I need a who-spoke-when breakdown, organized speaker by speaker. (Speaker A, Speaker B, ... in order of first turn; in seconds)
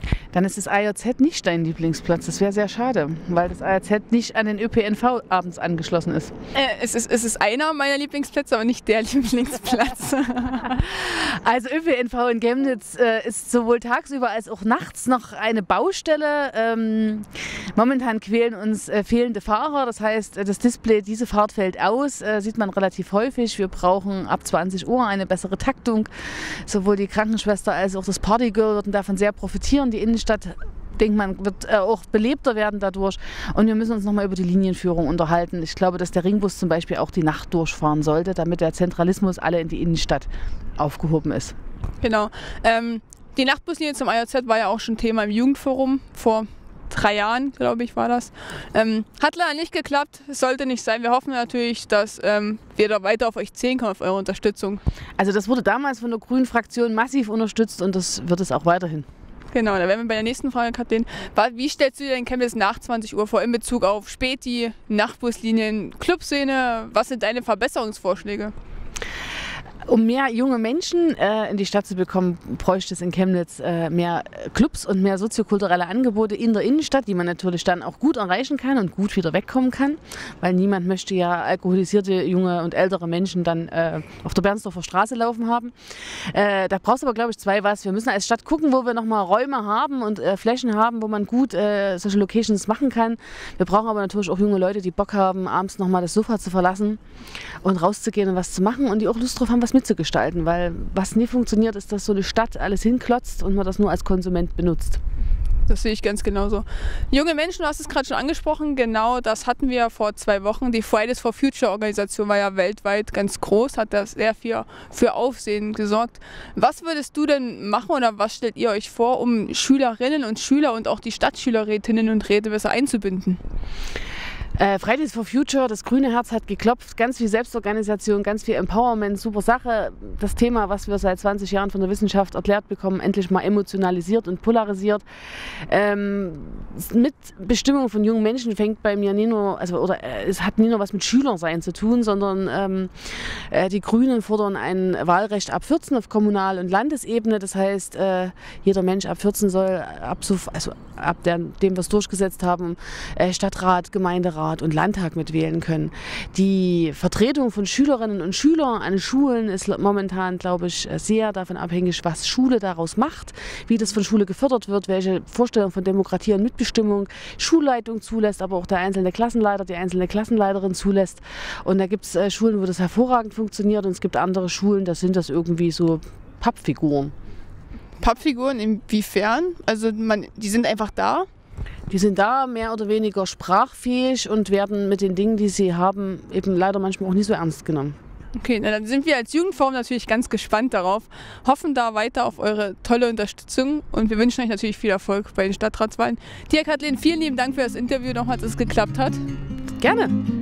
Speaker A: 0.3-6.3, 10.7-41.5, 55.2-59.0, 69.9-97.0, 97.6-105.0, 124.6-177.1, 181.9-187.9, 199.8-200.1
Speaker B: 6.5-10.8, 42.0-54.8, 59.5-68.5, 105.7-123.4, 178.0-181.3, 188.3-199.2